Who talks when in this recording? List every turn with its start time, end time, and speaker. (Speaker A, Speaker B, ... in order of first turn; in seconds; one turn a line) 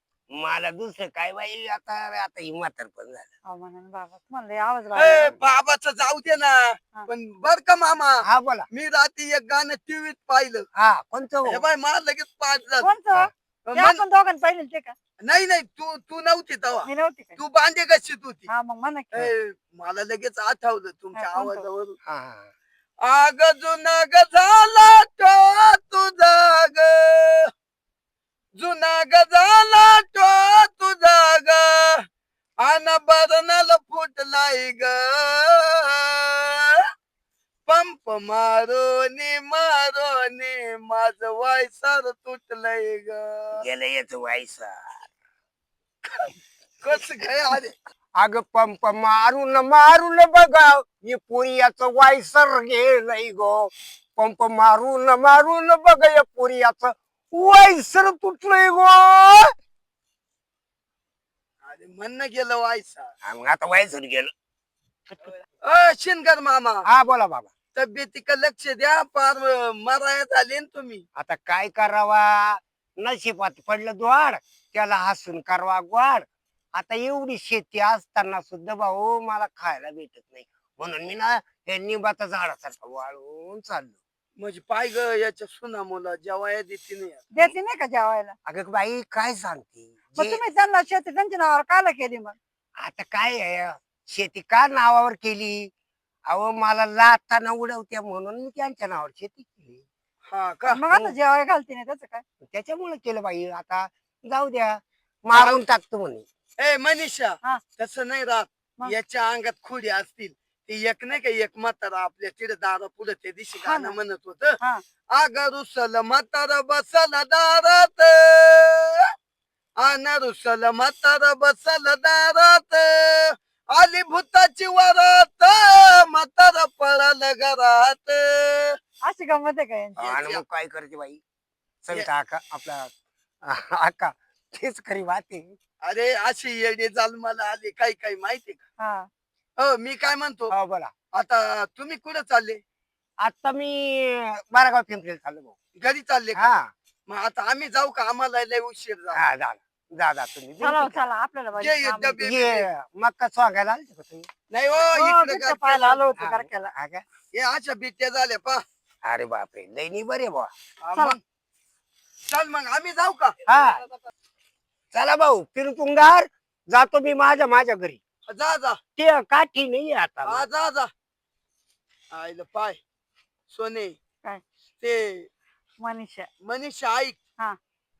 Speaker A: 0.3-3.3
Speaker B: 3.5-5.3
Speaker C: 4.9-10.7
Speaker A: 8.2-8.7
Speaker A: 10.8-11.6
Speaker C: 11.5-12.9
Speaker B: 12.8-14.9
Speaker C: 13.7-14.0
Speaker C: 15.2-18.5
Speaker B: 16.8-17.4
Speaker B: 18.5-19.3
Speaker C: 19.1-22.0
Speaker B: 21.1-21.6
Speaker A: 22.1-22.5
Speaker C: 23.0-27.5
Speaker C: 28.6-32.0
Speaker C: 32.6-36.8
Speaker C: 37.7-43.6
Speaker A: 43.6-45.0
Speaker C: 46.8-47.7
Speaker A: 48.2-59.5
Speaker C: 61.6-63.1
Speaker A: 63.2-64.3
Speaker C: 65.6-66.8
Speaker A: 66.9-67.5
Speaker C: 67.7-71.0
Speaker A: 71.2-76.2
Speaker A: 76.8-84.0
Speaker C: 84.4-87.3
Speaker B: 87.3-88.3
Speaker A: 88.5-90.4
Speaker B: 90.2-92.4
Speaker A: 92.8-95.7
Speaker A: 96.3-99.8
Speaker C: 100.3-100.8
Speaker B: 100.7-102.2
Speaker A: 100.9-101.1
Speaker A: 102.5-106.2
Speaker C: 105.3-105.6
Speaker C: 106.6-114.6
Speaker B: 113.6-114.0
Speaker C: 115.1-119.0
Speaker C: 119.8-128.8
Speaker B: 129.0-130.1
Speaker A: 130.0-131.2
Speaker C: 130.0-130.4
Speaker A: 131.8-132.9
Speaker A: 133.4-135.6
Speaker C: 135.8-138.6
Speaker B: 138.8-139.1
Speaker C: 139.6-140.5
Speaker A: 140.5-140.9
Speaker C: 141.1-142.6
Speaker A: 143.2-145.5
Speaker C: 145.8-146.5
Speaker A: 146.3-146.7
Speaker C: 147.1-149.2
Speaker A: 149.1-151.0
Speaker B: 150.6-152.2
Speaker C: 151.6-152.7
Speaker A: 152.2-154.3
Speaker C: 154.5-156.1
Speaker B: 154.9-156.7
Speaker A: 156.2-157.0
Speaker C: 157.3-158.6
Speaker A: 159.0-160.5
Speaker C: 160.8-161.2
Speaker C: 162.3-163.4
Speaker A: 163.5-163.8
Speaker A: 164.9-168.0
Speaker C: 168.3-168.8
Speaker A: 169.0-170.4
Speaker C: 170.2-170.9
Speaker C: 172.1-172.8
Speaker C: 173.5-173.9
Speaker C: 174.8-175.3
Speaker B: 175.8-176.3
Speaker C: 176.4-177.2